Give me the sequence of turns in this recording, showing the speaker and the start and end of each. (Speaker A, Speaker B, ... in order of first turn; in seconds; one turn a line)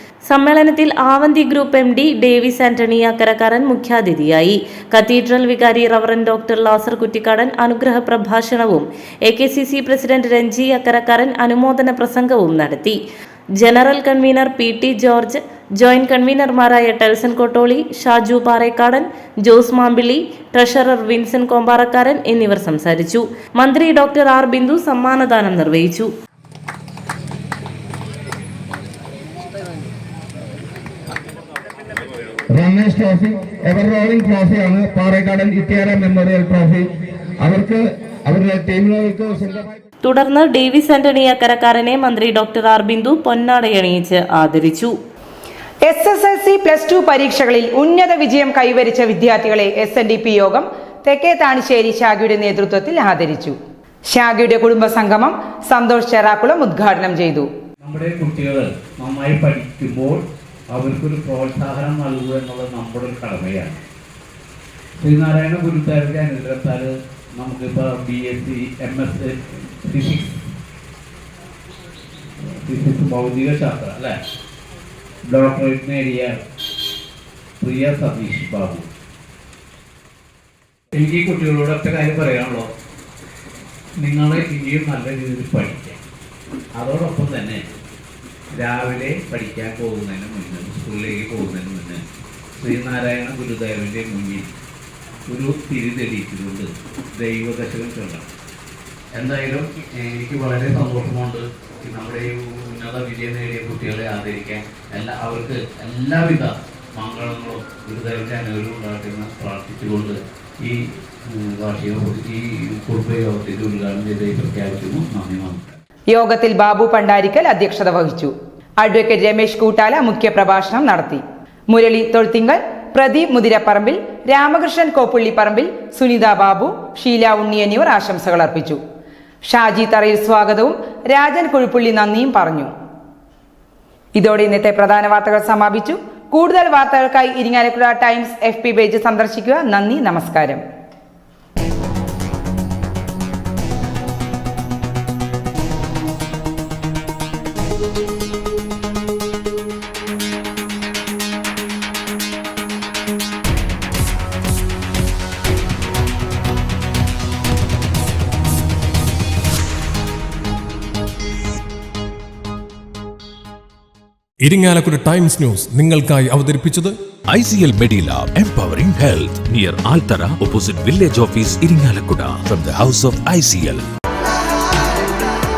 Speaker A: 0.3-13.0
Speaker A: 13.6-26.1
Speaker B: 32.5-39.7
Speaker A: 40.0-44.9
Speaker C: 45.9-53.5
Speaker C: 54.1-57.5
Speaker D: 57.8-63.8
Speaker D: 65.0-70.4
Speaker D: 72.7-74.2
Speaker D: 75.3-76.4
Speaker D: 77.6-78.8
Speaker D: 80.9-82.7
Speaker D: 84.0-86.0
Speaker D: 86.8-87.6
Speaker D: 88.5-92.0
Speaker D: 92.6-94.5
Speaker D: 95.3-98.3
Speaker D: 99.2-110.7
Speaker D: 111.3-115.8
Speaker C: 116.1-128.8
Speaker C: 129.4-132.7
Speaker C: 134.2-140.6
Speaker E: 164.4-166.9
Speaker F: 167.3-173.8